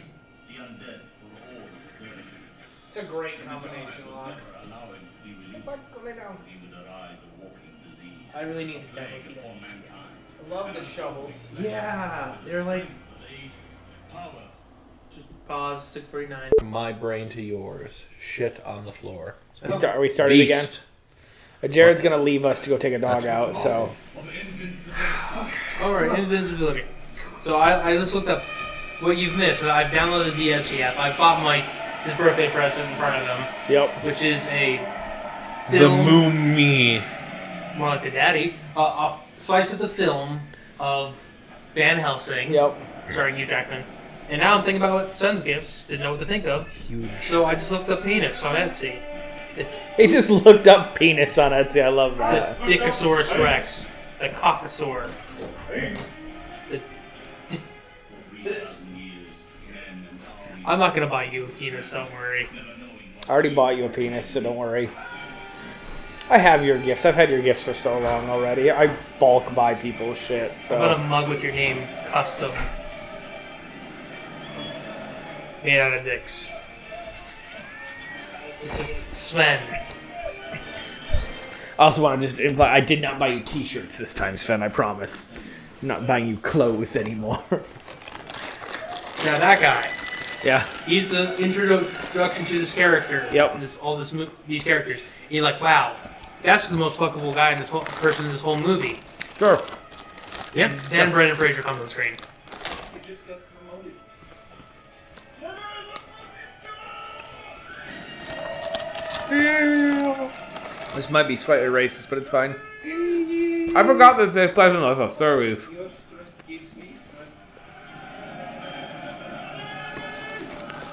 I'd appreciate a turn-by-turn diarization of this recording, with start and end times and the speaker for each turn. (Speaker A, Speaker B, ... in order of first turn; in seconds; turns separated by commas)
Speaker A: 0.4-2.6, Speaker B: 2.9-4.5, Speaker A: 3.4-14.5, Speaker B: 5.6-6.4, Speaker C: 8.3-9.9, Speaker B: 10.4-11.6, Speaker C: 11.5-12.9, Speaker C: 15.1-16.6, Speaker D: 16.6-19.5, Speaker C: 19.6-19.9, Speaker E: 19.6-20.7, Speaker D: 20.2-20.8, Speaker E: 21.6-23.9, Speaker D: 21.8-22.1, Speaker D: 23.0-23.9, Speaker A: 24.1-25.9, Speaker C: 25.8-28.5, Speaker C: 29.0-33.5, Speaker E: 33.7-34.0, Speaker C: 34.0-34.9, Speaker C: 35.7-36.3, Speaker D: 35.7-37.1, Speaker C: 37.7-41.2, Speaker C: 41.7-46.7, Speaker E: 42.5-42.8, Speaker D: 46.8-47.4, Speaker C: 47.2-49.0, Speaker C: 49.5-49.8, Speaker E: 50.0-52.6, Speaker C: 52.2-55.1, Speaker A: 58.1-64.8, Speaker C: 60.6-62.5, Speaker E: 63.3-64.9, Speaker E: 66.3-71.0, Speaker C: 70.7-72.7, Speaker C: 75.6-76.5, Speaker C: 78.6-79.8, Speaker E: 81.8-85.3, Speaker A: 85.2-86.6, Speaker E: 85.8-87.7, Speaker C: 89.2-89.9, Speaker E: 90.4-90.7, Speaker C: 90.8-99.0, Speaker E: 93.3-93.6, Speaker E: 99.4-99.7, Speaker D: 100.5-101.1, Speaker C: 100.5-102.2, Speaker B: 102.9-104.0, Speaker E: 109.3-110.3, Speaker E: 110.9-112.6, Speaker E: 113.7-115.7, Speaker B: 115.6-117.3